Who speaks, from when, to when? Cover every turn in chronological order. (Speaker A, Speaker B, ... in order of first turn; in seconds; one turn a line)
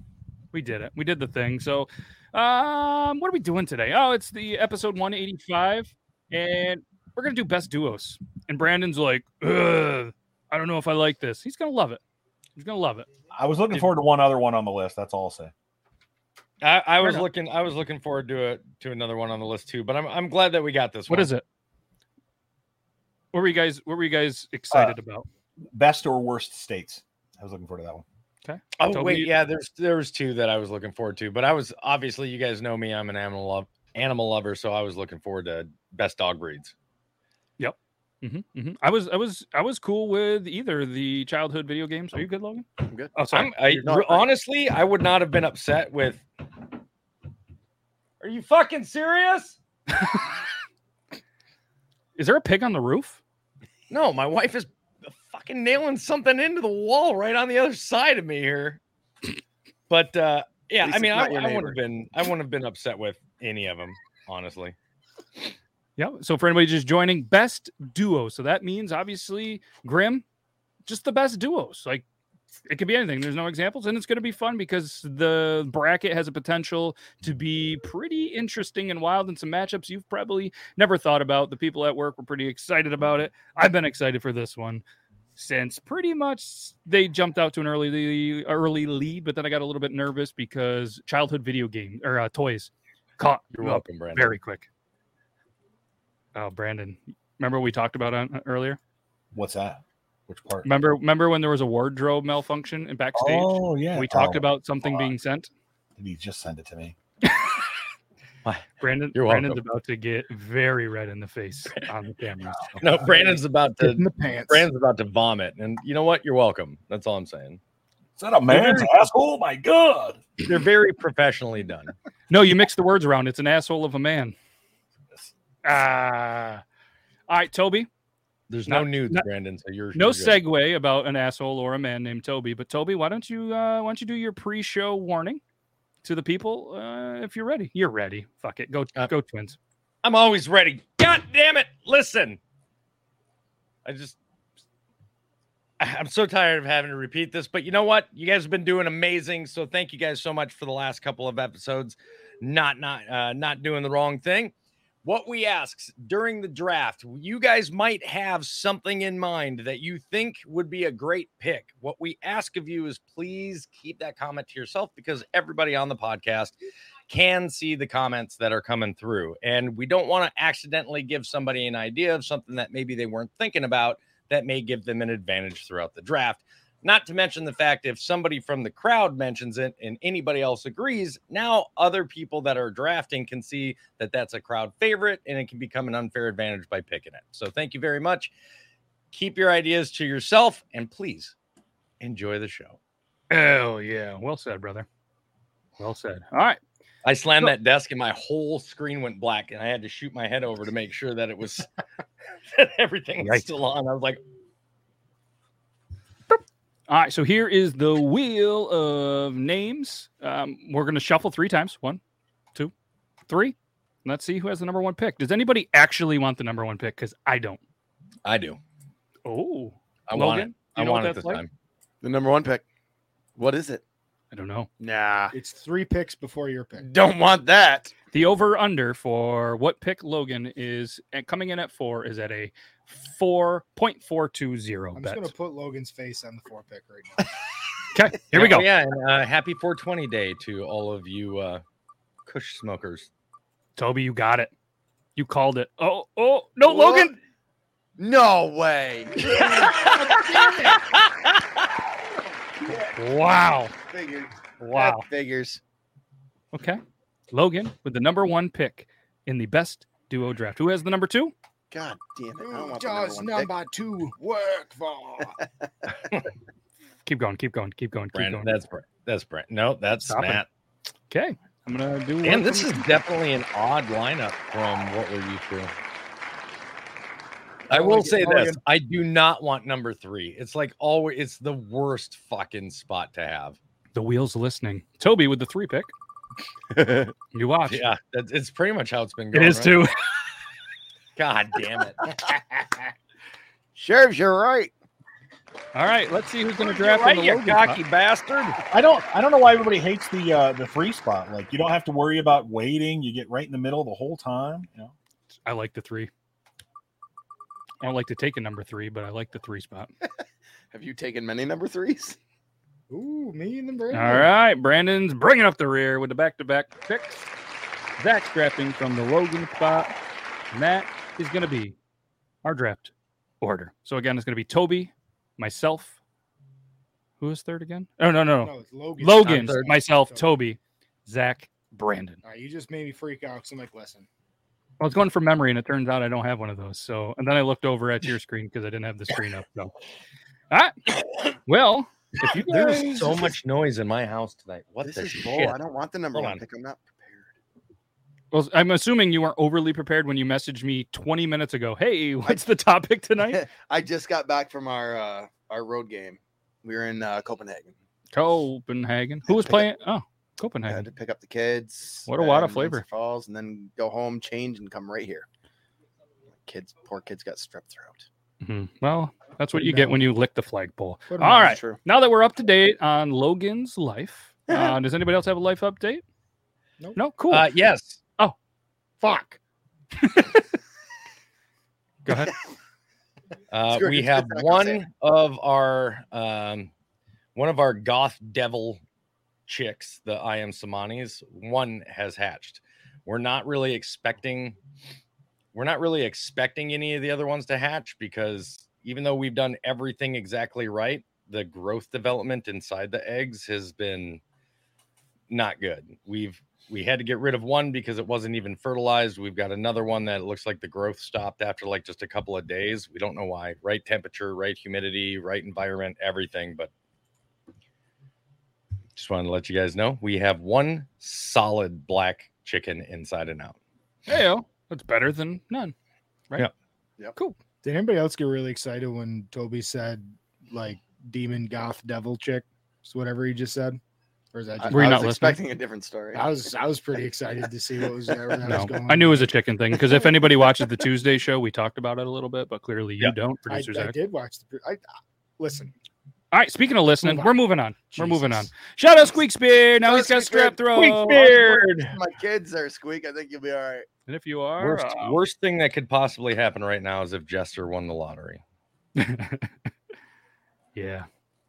Speaker A: 0.5-12.0
Speaker A: 12.6-13.1
Speaker B: 13.3-15.5
Speaker C: 16.6-21.3
Speaker A: 17.0-17.3
Speaker A: 21.1-21.4
Speaker A: 23.3-25.3
Speaker B: 24.7-24.9
Speaker B: 25.7-28.0
Speaker A: 28.4-29.3
Speaker C: 28.8-36.7
Speaker A: 37.6-43.5
Speaker D: 42.9-44.3
Speaker C: 43.3-46.2
Speaker C: 48.2-49.6
Speaker A: 52.2-53.2
Speaker C: 53.9-58.8
Speaker C: 59.9-64.7
Speaker D: 60.8-61.8
Speaker A: 66.0-70.2
Speaker A: 70.8-72.0
Speaker A: 72.7-84.8
Speaker A: 85.3-94.7
Speaker C: 93.5-94.3
Speaker A: 96.3-98.8
Speaker B: 99.3-100.7
Speaker A: 100.6-105.5
Speaker B: 103.1-105.1
Speaker B: 106.0-106.9
Speaker C: 108.4-109.6
Speaker A: 108.8-113.1
Speaker C: 112.8-117.6
Speaker E: 113.8-114.6
Speaker B: 118.2-120.2
Speaker C: 118.5-118.9
Speaker C: 120.4-121.9
Speaker A: 122.3-124.3
Speaker A: 125.6-126.6
Speaker A: 127.3-127.9
Speaker C: 128.5-130.4
Speaker A: 128.7-129.2
Speaker A: 129.9-135.4
Speaker A: 136.0-139.6
Speaker C: 140.0-142.4
Speaker C: 143.8-144.2
Speaker C: 145.8-154.5
Speaker C: 155.0-166.6
Speaker C: 167.1-188.3
Speaker C: 189.1-191.3
Speaker C: 192.0-192.8
Speaker A: 193.3-194.9
Speaker A: 195.8-196.6
Speaker C: 197.0-201.7
Speaker C: 202.5-204.2
Speaker A: 203.2-203.5
Speaker A: 206.3-212.0
Speaker A: 213.3-217.6
Speaker C: 218.2-218.6
Speaker A: 219.2-221.4
Speaker C: 220.1-221.5
Speaker D: 222.0-222.6
Speaker D: 223.4-223.8
Speaker A: 224.3-224.7
Speaker D: 224.8-225.3
Speaker E: 225.3-226.9
Speaker D: 226.8-227.9
Speaker A: 228.1-235.3
Speaker E: 234.9-237.3
Speaker A: 237.9-238.7
Speaker C: 238.3-241.6
Speaker C: 242.2-243.1
Speaker A: 243.8-244.5
Speaker A: 245.2-247.2
Speaker D: 246.6-247.1
Speaker D: 248.0-250.1
Speaker E: 249.3-250.8
Speaker C: 250.1-251.1
Speaker A: 252.9-253.7
Speaker D: 253.9-255.6
Speaker A: 254.6-255.1
Speaker A: 256.5-261.3
Speaker D: 261.7-263.5
Speaker E: 262.4-265.4
Speaker A: 267.1-268.6
Speaker C: 268.1-270.5
Speaker A: 270.1-270.4
Speaker A: 271.1-273.0
Speaker C: 272.2-275.7
Speaker C: 277.7-283.6
Speaker D: 277.7-278.6
Speaker E: 278.0-278.5
Speaker A: 283.9-285.9
Speaker D: 286.7-287.1
Speaker A: 287.3-287.8
Speaker C: 287.7-289.8
Speaker A: 289.3-289.9
Speaker C: 291.1-292.1
Speaker D: 293.7-294.7
Speaker A: 295.7-297.8
Speaker C: 296.6-298.6
Speaker B: 298.7-304.9
Speaker A: 305.4-306.1
Speaker A: 307.8-309.9
Speaker D: 310.7-312.2
Speaker E: 312.9-314.3
Speaker A: 313.9-317.2
Speaker A: 318.0-319.9
Speaker A: 320.5-321.8
Speaker A: 322.4-325.9
Speaker A: 327.2-332.2
Speaker E: 328.4-330.3
Speaker C: 329.2-329.7
Speaker E: 332.2-334.1
Speaker A: 334.8-339.7
Speaker A: 341.4-343.3
Speaker C: 342.3-345.6
Speaker D: 344.8-347.3
Speaker C: 346.1-346.4
Speaker A: 348.3-353.4
Speaker D: 353.3-357.7
Speaker A: 358.1-360.8
Speaker D: 359.3-359.6
Speaker D: 360.7-365.2
Speaker A: 362.1-362.8
Speaker D: 366.4-368.1
Speaker A: 368.4-376.0
Speaker E: 369.5-370.0
Speaker E: 371.1-371.6
Speaker D: 371.4-371.8
Speaker D: 374.5-374.8
Speaker A: 376.9-377.5
Speaker C: 377.3-378.0
Speaker E: 379.0-379.4
Speaker A: 382.0-382.3
Speaker C: 383.5-386.7
Speaker D: 383.7-384.8
Speaker C: 387.3-388.8
Speaker C: 389.5-394.6
Speaker C: 395.5-404.2
Speaker C: 405.3-416.7
Speaker C: 418.9-423.6
Speaker A: 424.1-425.7
Speaker E: 427.6-433.8
Speaker E: 434.3-435.2
Speaker D: 434.6-436.3
Speaker A: 434.7-435.4
Speaker E: 436.1-439.3
Speaker A: 438.4-444.0
Speaker E: 443.5-444.8
Speaker E: 445.4-445.7
Speaker A: 446.3-451.6
Speaker E: 447.0-447.3
Speaker E: 447.9-448.3
Speaker D: 449.8-450.6
Speaker C: 450.7-451.9
Speaker D: 451.9-453.9
Speaker A: 454.1-455.2
Speaker C: 454.6-458.4
Speaker A: 458.9-459.5
Speaker A: 460.8-461.1